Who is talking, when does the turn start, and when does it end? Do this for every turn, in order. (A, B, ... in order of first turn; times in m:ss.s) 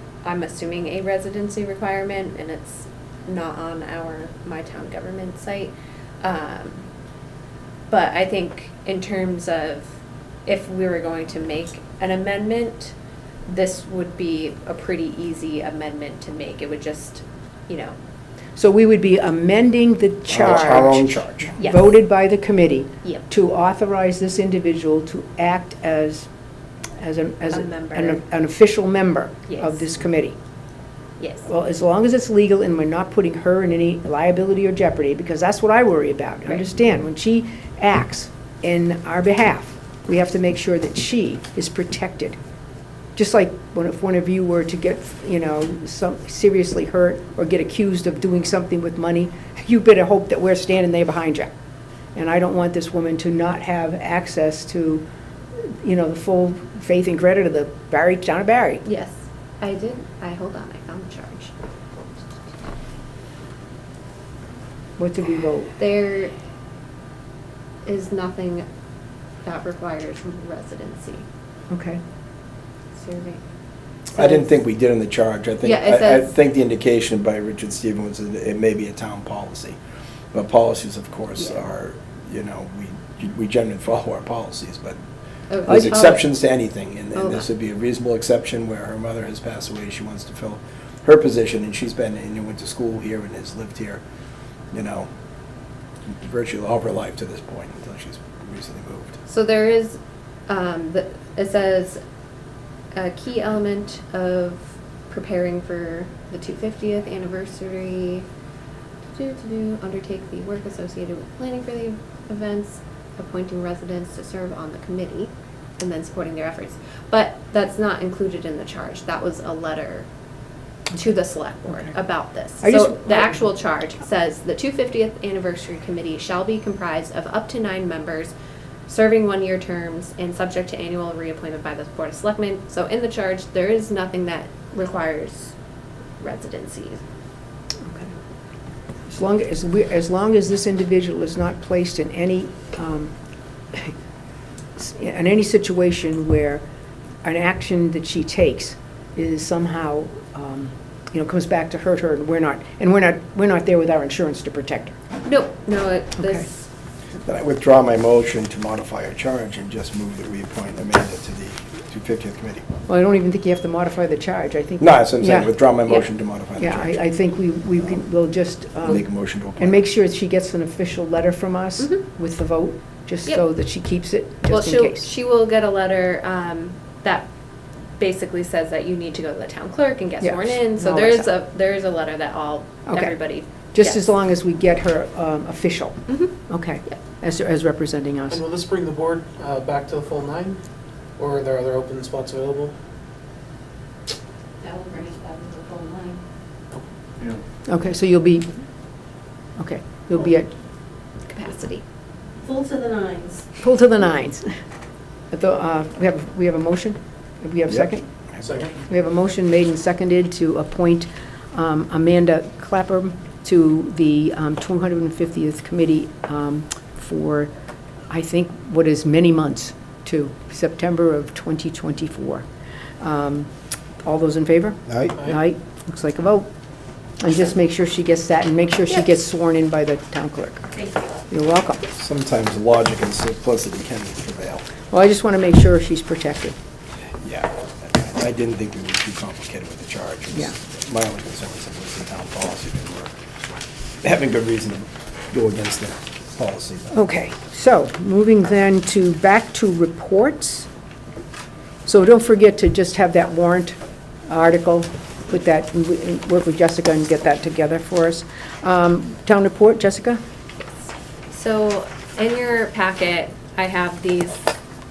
0:00.2-0:06.8 A
0:07.9-0:09.9 A
0:10.4-0:12.9 A
0:13.5-0:17.9 A
0:18.6-0:26.3 B
0:20.3-0:21.5 C
0:21.6-0:21.9 A
0:27.0-0:30.4 B
0:27.5-0:28.2 A
0:29.5-0:29.8 A
0:31.2-0:31.4 A
0:31.4-0:42.4 B
0:43.2-0:51.5 B
0:52.1-0:55.0 B
0:55.8-0:58.8 B
0:58.8-1:01.5 A
1:05.0-1:05.7 B
1:05.8-1:06.3 A
1:07.8-1:08.6 A
1:09.4-1:11.2 A
1:11.7-1:12.0 B
1:12.9-1:13.4 A
1:14.1-1:19.8 C
1:14.2-1:14.5 A
1:15.6-1:16.3 A
1:20.3-1:25.0 C
1:25.5-1:26.2 A
1:25.6-1:34.0 C
1:27.2-1:27.5 A
1:34.7-1:35.1 C
1:36.1-1:39.2 C
1:39.3-1:42.0 A
1:42.9-1:48.2 A
1:49.1-2:00.1 A
2:00.9-2:08.3 A
2:02.6-2:03.4 B
2:08.9-2:15.5 A
2:16.2-2:17.0 A
2:17.8-2:18.1 B
2:19.1-2:23.1 B
2:24.8-2:26.6 B
2:27.2-2:35.0 B
2:35.2-2:36.5 A
2:36.2-2:36.4 B
2:37.2-2:42.6 C
2:42.9-2:45.5 B
2:44.8-2:47.0 C
2:46.6-2:55.1 B
2:48.8-2:49.8 C
2:54.5-2:57.3 A
2:58.0-3:04.1 A
3:00.2-3:01.3 B
3:02.9-3:03.1 B
3:03.7-3:08.4 B
3:06.1-3:06.3 A
3:08.3-3:10.6 D
3:11.2-3:12.7 D
3:14.6-3:16.2 A
3:14.6-3:16.0 E
3:17.6-3:18.5 B
3:19.6-3:20.5 B
3:21.3-3:21.8 A
3:22.5-3:23.4 E
3:22.6-3:22.9 A
3:23.6-3:24.5 B
3:25.3-3:28.1 B
3:27.7-3:28.5 C
3:28.4-3:28.8 D
3:28.9-3:37.5 B
3:38.1-3:42.4 B
3:43.0-3:43.5 B
3:44.0-3:46.5 B
3:44.9-3:45.2 C
3:47.2-3:50.7 B
3:50.8-3:51.1 A
3:51.3-3:51.9 B
3:52.0-3:54.6 C
3:54.9-3:56.6 B
3:57.2-4:03.2 C
4:04.0-4:06.9 C
4:06.9-4:10.7 B
4:11.8-4:13.8 B
4:14.3-4:20.2 B
4:20.8-4:24.4 A